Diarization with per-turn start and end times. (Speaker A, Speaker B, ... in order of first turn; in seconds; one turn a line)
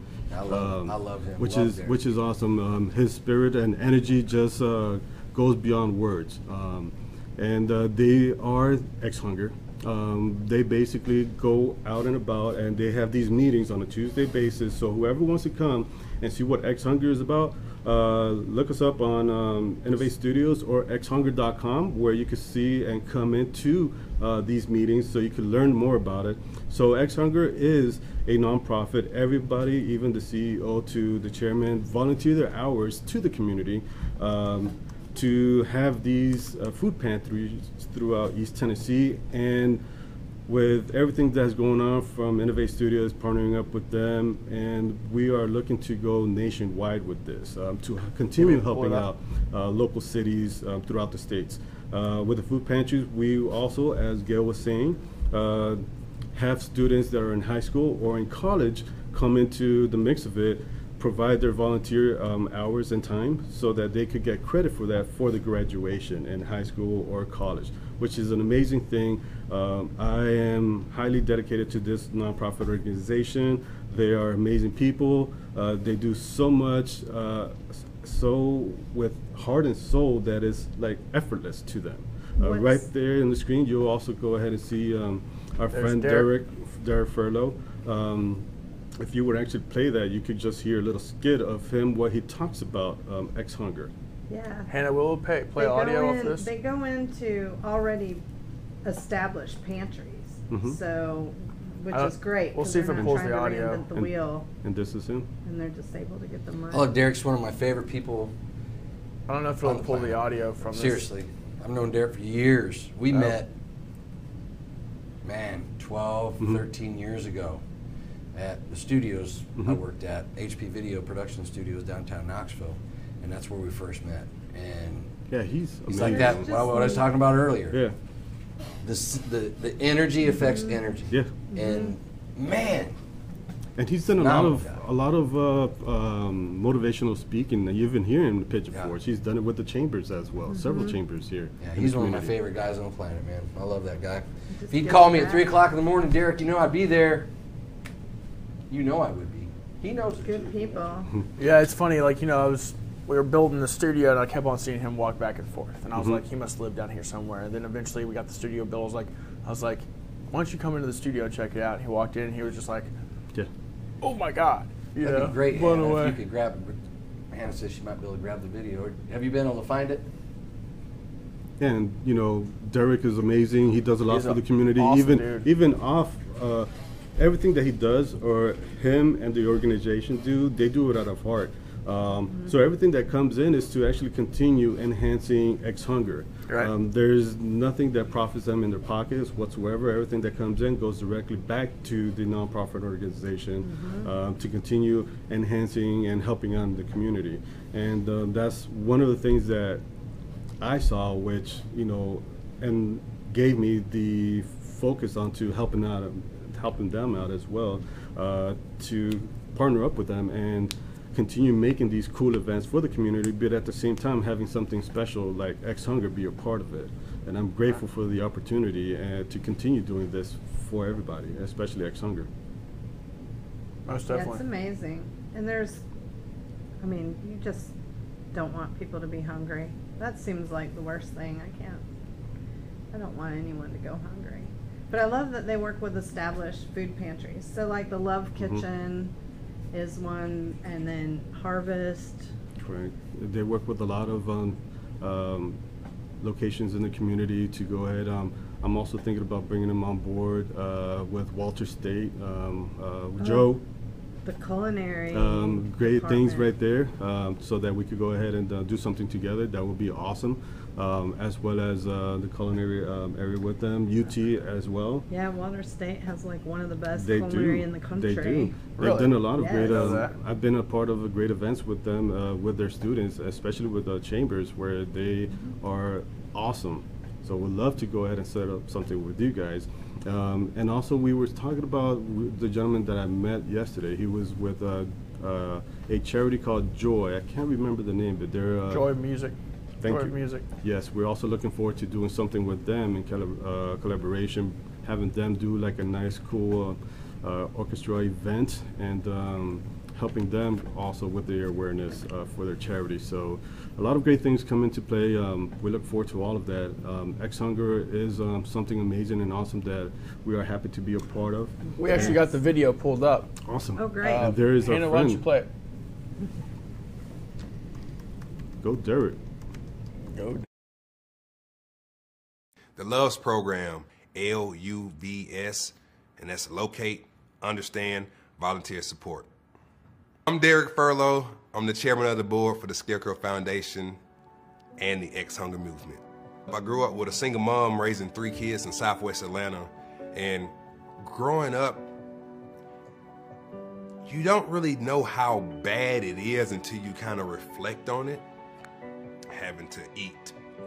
Speaker A: 0.3-2.0
Speaker B: 0.5-39.8
Speaker B: 40.5-55.8
Speaker C: 48.4-49.1
Speaker B: 56.4-88.5
Speaker D: 82.4-82.8
Speaker C: 85.7-86.3
Speaker B: 89.0-93.9
Speaker D: 94.3-94.7
Speaker C: 94.7-96.5
Speaker D: 95.6-98.2
Speaker D: 98.8-104.5
Speaker B: 100.5-100.8
Speaker C: 101.9-103.8
Speaker B: 103.9-105.3
Speaker D: 105.5-106.9
Speaker A: 106.7-108.3
Speaker C: 109.3-111.1
Speaker A: 109.6-113.5
Speaker A: 115.2-117.6
Speaker A: 118.3-125.1
Speaker B: 125.3-126.5
Speaker A: 125.9-127.8
Speaker D: 126.0-127.1
Speaker A: 128.8-132.9
Speaker D: 131.5-131.9
Speaker B: 133.8-142.4
Speaker A: 134.1-134.8
Speaker D: 140.5-141.0
Speaker A: 141.6-147.3
Speaker D: 144.6-145.5
Speaker A: 148.7-150.8
Speaker D: 150.2-151.1
Speaker C: 151.4-162.9
Speaker C: 164.0-166.2
Speaker A: 165.0-166.8
Speaker A: 167.3-170.1
Speaker B: 171.6-199.8
Speaker C: 174.1-175.5
Speaker D: 193.6-194.1
Speaker B: 200.6-222.3
Speaker C: 223.9-224.4
Speaker D: 224.1-225.8
Speaker D: 226.8-227.7
Speaker D: 228.3-231.8
Speaker D: 232.9-239.1
Speaker D: 239.7-242.3
Speaker B: 242.6-245.6
Speaker B: 246.2-253.6
Speaker D: 253.2-253.4
Speaker D: 254.3-256.5
Speaker B: 255.1-265.1
Speaker D: 265.1-268.6
Speaker B: 267.0-288.9
Speaker C: 268.8-270.1
Speaker D: 269.4-270.0
Speaker C: 288.7-290.4
Speaker B: 289.8-312.2
Speaker C: 311.8-313.4
Speaker B: 313.4-315.2
Speaker D: 313.8-314.2
Speaker C: 314.0-315.5
Speaker B: 318.6-319.2
Speaker C: 320.1-320.4
Speaker E: 322.8-329.3
Speaker E: 330.3-334.0
Speaker E: 334.8-341.9
Speaker E: 344.1-348.2
Speaker E: 349.3-350.4